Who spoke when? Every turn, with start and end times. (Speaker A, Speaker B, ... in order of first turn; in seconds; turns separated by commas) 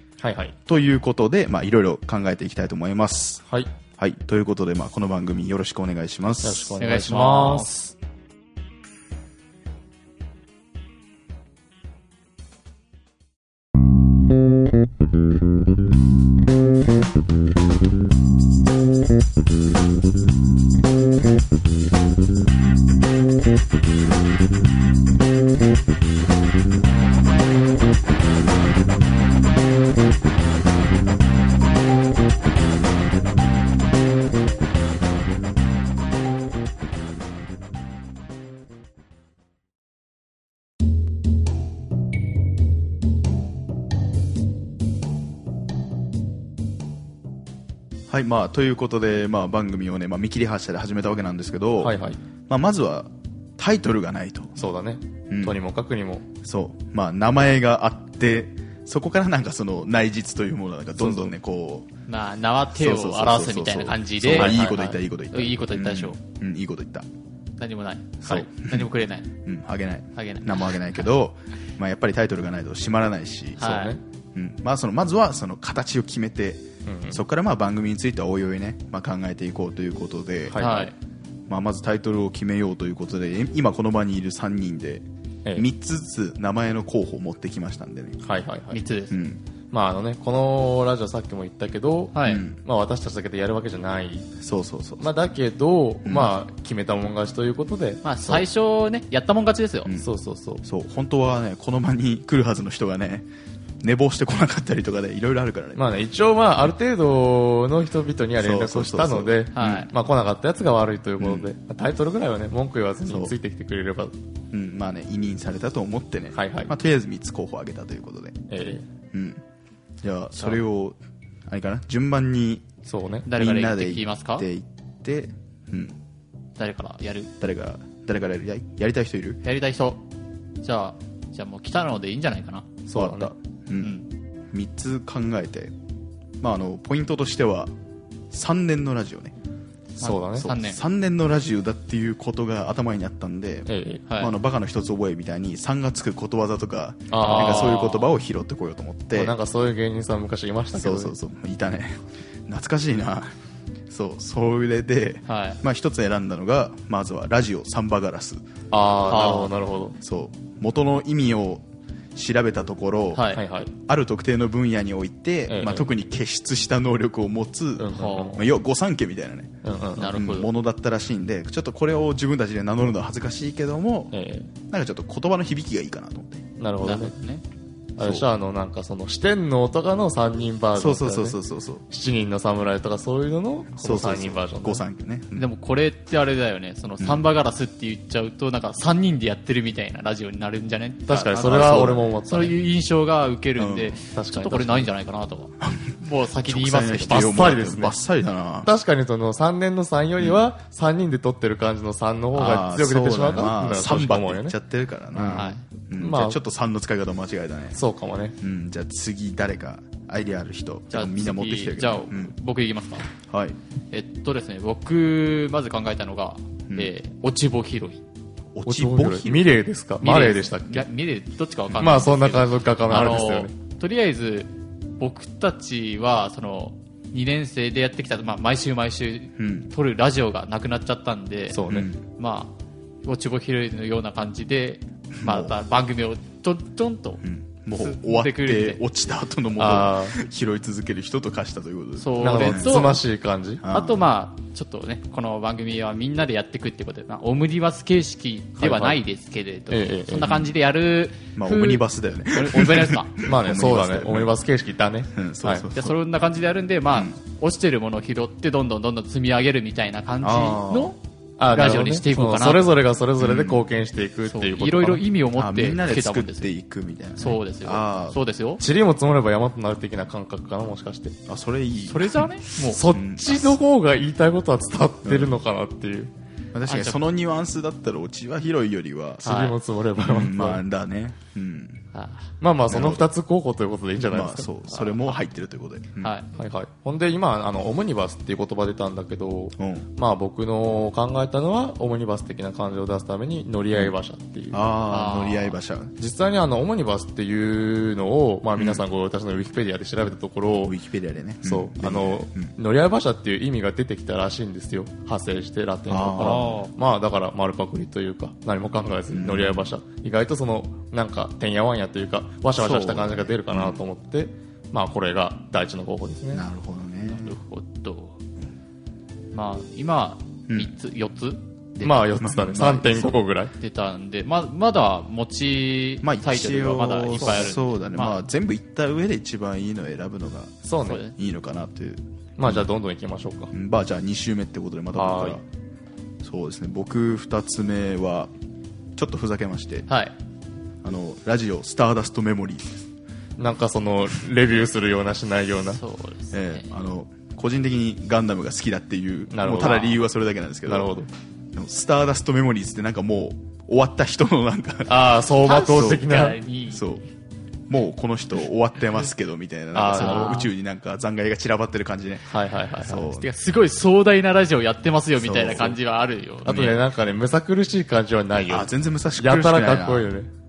Speaker A: 0.2-0.6, Speaker B: 0.7-3.4, Speaker A: 3.5-3.7, Speaker B: 4.0-6.7, Speaker A: 6.4-7.9, Speaker C: 6.8-7.9, Speaker B: 48.1-52.0, Speaker A: 51.8-52.2, Speaker B: 52.5-54.6, Speaker A: 54.6-56.2, Speaker B: 55.3-55.6, Speaker B: 56.4-61.9, Speaker A: 61.0-61.3, Speaker C: 62.1-66.2, Speaker B: 62.7-67.0, Speaker A: 64.3-65.0, Speaker C: 67.6-69.3, Speaker B: 68.2-68.9, Speaker B: 69.4-73.8, Speaker C: 70.2-71.0, Speaker C: 73.6-74.0, Speaker A: 73.6-74.0, Speaker B: 74.3-80.9, Speaker A: 76.8-77.2, Speaker A: 80.5-80.9, Speaker C: 80.5-80.9, Speaker B: 81.5-85.0, Speaker B: 85.5-88.2, Speaker A: 88.2-88.8, Speaker C: 88.7-89.1, Speaker B: 89.1-89.4, Speaker A: 89.7-94.3, Speaker C: 92.1-92.4, Speaker B: 92.2-92.6, Speaker B: 94.4-95.1, Speaker A: 95.0-98.5, Speaker B: 96.0-96.3, Speaker C: 98.0-99.9, Speaker A: 100.0-100.6, Speaker B: 100.6-103.3, Speaker B: 103.8-105.8, Speaker A: 105.8-114.1, Speaker B: 108.4-109.9, Speaker C: 109.5-109.9, Speaker B: 111.2-111.5, Speaker B: 113.1-113.3, Speaker B: 114.5-118.4, Speaker A: 116.3-116.7, Speaker A: 118.5-118.8, Speaker B: 119.1-119.4, Speaker B: 120.0-122.7, Speaker A: 122.8-123.3, Speaker C: 123.3-124.5, Speaker B: 123.3-126.0, Speaker C: 126.6-127.3, Speaker B: 127.4-129.4, Speaker C: 129.4-130.0, Speaker C: 130.6-132.8, Speaker A: 132.9-133.3, Speaker B: 132.9-133.9, Speaker B: 134.5-135.7, Speaker B: 136.4-137.7, Speaker B: 138.3-139.3, Speaker C: 140.0-140.8, Speaker A: 140.0-140.5, Speaker B: 140.3-149.3, Speaker A: 143.7-144.1, Speaker A: 147.1-147.9, Speaker C: 147.2-148.1, Speaker A: 149.1-151.2, Speaker B: 150.8-153.3, Speaker B: 153.9-158.4, Speaker C: 155.3-155.6, Speaker A: 158.7-160.0, Speaker C: 159.1-159.5, Speaker B: 160.0-161.6, Speaker B: 162.1-163.3, Speaker C: 163.1-163.4, Speaker A: 163.3-163.7, Speaker B: 163.8-174.2, Speaker A: 165.5-165.9, Speaker A: 167.8-168.4, Speaker C: 167.9-168.4, Speaker A: 169.6-170.2, Speaker C: 170.0-170.5, Speaker A: 174.1-174.5, Speaker B: 174.7-176.4, Speaker A: 176.6-177.1, Speaker C: 176.8-177.4, Speaker A: 178.0-181.4, Speaker B: 178.0-178.2, Speaker B: 180.8-181.8, Speaker A: 181.9-184.8, Speaker B: 183.7-185.5, Speaker C: 185.3-197.4, Speaker B: 187.0-187.3, Speaker A: 191.1-192.5, Speaker B: 191.4-192.0, Speaker B: 193.6-194.0, Speaker A: 194.1-194.9, Speaker B: 195.6-195.9, Speaker B: 196.4-198.7, Speaker A: 197.1-198.0, Speaker A: 198.6-204.6, Speaker B: 202.3-207.8, Speaker A: 205.1-206.4, Speaker C: 205.3-205.6, Speaker A: 207.7-208.4, Speaker B: 208.4-212.3, Speaker C: 210.9-213.1, Speaker B: 213.1-213.6, Speaker C: 213.9-218.0, Speaker B: 218.5-219.5, Speaker A: 218.7-220.8, Speaker C: 220.0-237.2, Speaker A: 221.8-223.5, Speaker B: 222.9-223.2, Speaker B: 229.4-229.7, Speaker A: 231.5-231.9, Speaker B: 231.7-232.0, Speaker B: 235.2-235.6, Speaker B: 237.2-242.7, Speaker C: 237.8-238.8, Speaker A: 239.6-240.2, Speaker C: 242.0-243.0, Speaker A: 242.2-243.6, Speaker B: 243.6-244.0, Speaker C: 243.7-253.2, Speaker A: 248.6-249.0, Speaker A: 249.7-250.4, Speaker B: 250.2-250.5, Speaker B: 251.3-254.3, Speaker A: 253.2-255.7, Speaker B: 255.1-255.9, Speaker C: 255.7-261.0, Speaker B: 260.2-260.9, Speaker A: 261.4-265.0, Speaker C: 261.5-262.7, Speaker B: 263.2-263.6, Speaker C: 264.3-266.5, Speaker B: 265.4-268.2, Speaker C: 267.2-268.6, Speaker A: 268.6-271.1, Speaker B: 271.3-273.6, Speaker C: 271.9-272.8, Speaker A: 272.6-276.1, Speaker B: 275.0-275.4, Speaker B: 276.5-279.3, Speaker C: 276.7-277.0, Speaker C: 279.2-279.6, Speaker A: 279.2-280.6, Speaker B: 280.0-281.8, Speaker C: 281.9-282.3, Speaker A: 282.4-284.5, Speaker B: 282.7-283.1, Speaker B: 284.1-286.1, Speaker C: 284.7-285.2, Speaker C: 286.0-286.4, Speaker A: 286.4-294.7, Speaker B: 289.6-289.9, Speaker B: 294.5-295.9, Speaker C: 294.9-295.6, Speaker A: 296.0-300.8, Speaker B: 298.6-298.8, Speaker B: 300.6-302.5, Speaker A: 301.4-316.4, Speaker B: 305.9-306.6, Speaker C: 306.2-306.7, Speaker B: 309.1-309.7, Speaker B: 312.6-313.8, Speaker B: 316.3-317.4, Speaker C: 317.0-318.2, Speaker C: 319.3-321.4, Speaker B: 321.7-323.2, Speaker A: 321.8-323.5, Speaker C: 323.6-328.2, Speaker B: 326.0-330.6, Speaker A: 327.2-327.6, Speaker A: 330.6-331.0, Speaker C: 330.8-331.1, Speaker B: 331.1-332.7, Speaker A: 332.4-333.5, Speaker B: 333.5-335.4, Speaker A: 334.9-335.4, Speaker B: 336.2-338.3, Speaker B: 339.0-339.9, Speaker C: 339.9-340.1, Speaker B: 340.8-342.9, Speaker A: 343.4-345.8, Speaker C: 345.7-346.8, Speaker B: 346.3-351.0, Speaker A: 349.3-349.9, Speaker C: 349.5-349.9, Speaker A: 350.6-351.1, Speaker B: 351.5-355.1, Speaker A: 354.9-356.4, Speaker C: 355.4-356.9, Speaker B: 355.6-356.0, Speaker B: 356.7-357.0, Speaker B: 357.7-363.2, Speaker A: 359.7-360.5, Speaker C: 359.9-360.5, Speaker A: 362.3-363.2, Speaker C: 363.2-366.8, Speaker B: 365.2-365.7, Speaker A: 366.4-370.3, Speaker B: 366.5-366.8, Speaker B: 368.5-370.1